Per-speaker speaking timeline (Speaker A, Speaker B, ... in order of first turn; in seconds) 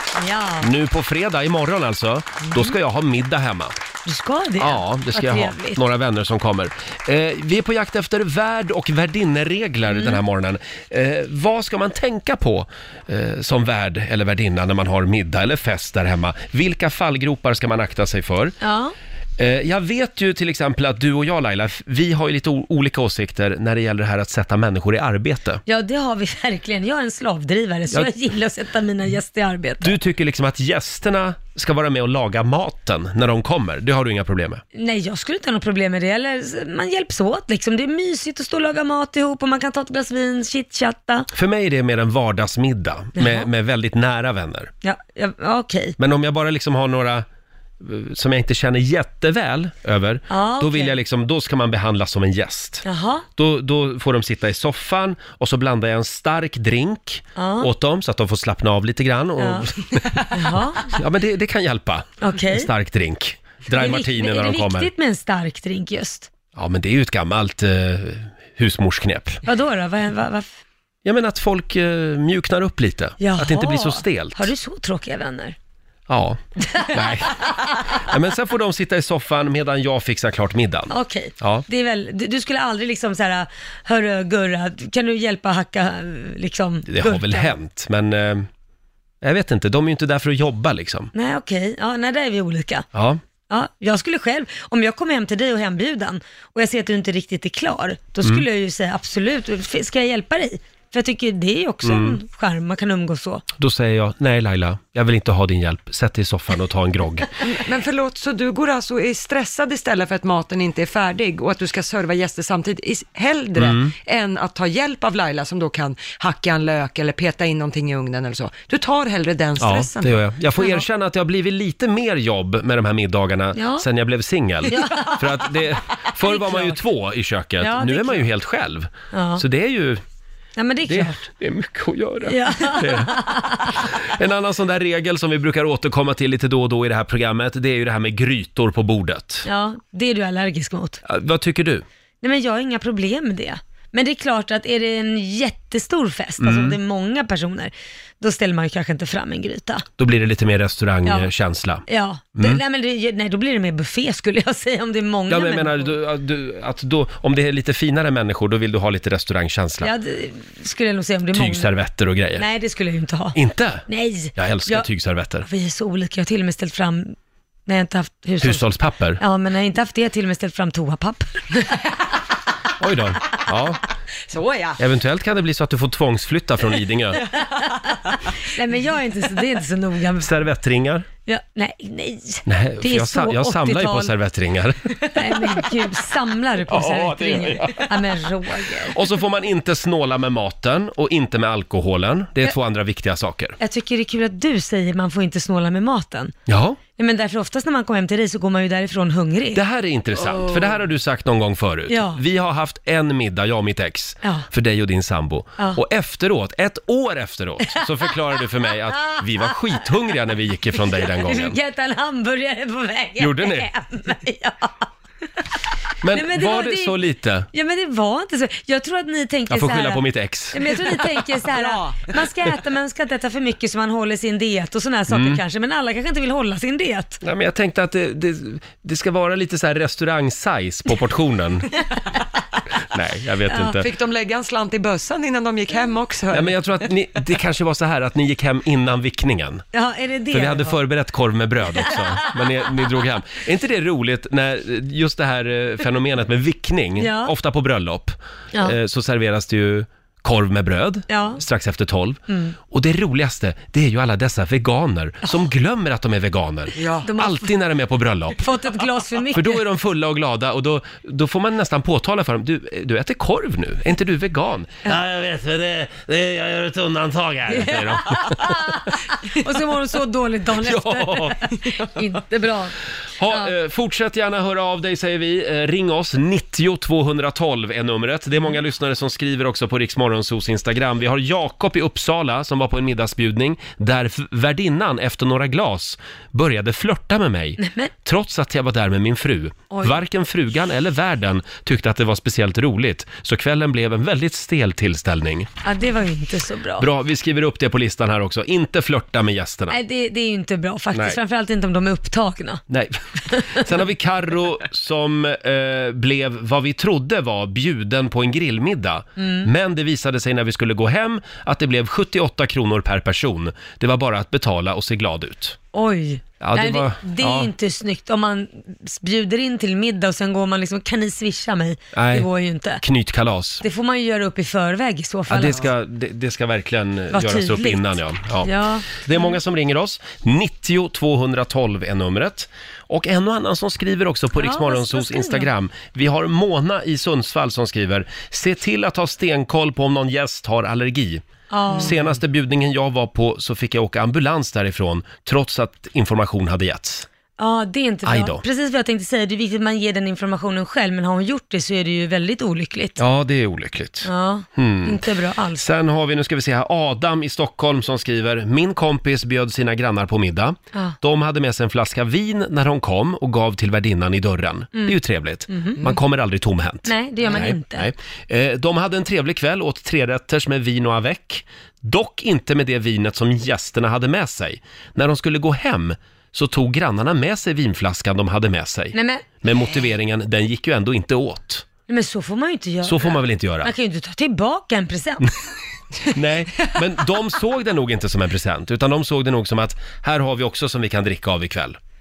Speaker A: 0.2-0.7, 2.5-2.8, 4.0-5.8, 9.9-10.2, 18.6-18.9, 25.7-30.0, 34.8-41.3, 43.2-43.5, 44.8-46.0, 50.3-51.0, 52.9-53.2, 57.4-57.7, 59.4-59.7, 60.3-61.0, 62.2-62.7, 63.8-66.3, 69.5-70.6, 73.2-75.6, 76.6-78.0, 80.9-87.5, 91.1-92.8, 93.5-103.4, 123.5-123.9, 124.7-125.5, 126.2-126.8, 127.6-128.3, 129.1-129.4, 130.6-131.2, 132.2-133.9, 139.4-141.0, 142.2-149.8, 151.1-151.3, 151.9-155.9, 159.8-161.7, 162.4-164.9, 165.5-167.2, 167.7-168.7, 169.2-171.8, 177.6-180.3, 181.3-184.1, 185.0-189.2, 193.6-196.3, 197.0-199.6, 201.9-202.2, 207.7-208.1, 211.0-214.8, 216.1-217.0, 217.5-227.2, 239.7-240.8, 241.8-242.4, 247.0-247.3, 251.1-251.4, 252.3-252.6, 257.1-257.5, 258.4-259.6, 267.5-272.8, 273.3-273.5, 287.6-287.9, 289.7-290.0, 295.6-296.9, 299.7-302.6, 303.3-303.6, 309.2-309.5, 315.7-322.8, 323.6-325.7, 327.1-329.4, 334.4-335.5, 341.5-342.0, 347.4-353.0, 354.0-355.6, 365.5-366.0, 366.9-367.9, 378.9-379.3, 381.9-385.4
Speaker B: 0.6-3.8, 4.6-18.6, 19.4-25.6, 29.8-34.6, 41.3-44.7, 46.0-47.3, 47.8-52.9, 53.4-60.3, 60.8-64.9, 66.5-69.4, 71.0-74.5, 76.1-81.7, 86.9-88.5, 89.2-91.1, 92.9-93.2, 101.8-102.2, 103.6-107.3, 113.6-113.9, 119.6-130.0, 130.9-139.5, 141.1-141.8, 146.4-146.8, 150.0-151.8, 152.4-152.6, 155.3-159.9, 161.3-162.5, 163.3-165.5, 168.4-169.2, 172.8-173.8, 174.8-177.2, 180.2-181.1, 182.5-185.1, 186.7-187.9, 188.9-193.6, 196.5-196.8, 199.5-211.6, 213.2-213.7, 216.0-217.5, 219.5-220.7, 225.1-225.4, 227.2-231.7, 232.9-233.8, 236.3-239.7, 240.3-258.4, 259.3-269.0, 270.6-271.4, 273.2-295.5, 296.8-299.8, 300.9-301.2, 302.7-315.6, 316.4-317.5, 321.9-322.3, 322.8-323.6, 325.3-347.1, 348.0-348.4, 353.0-381.7, 382.8-383.7, 386.1-391.8
Speaker C: 107.5-120.2, 174.3-174.8, 177.3-177.9, 221.5-222.1, 233.6-236.8, 256.8-257.1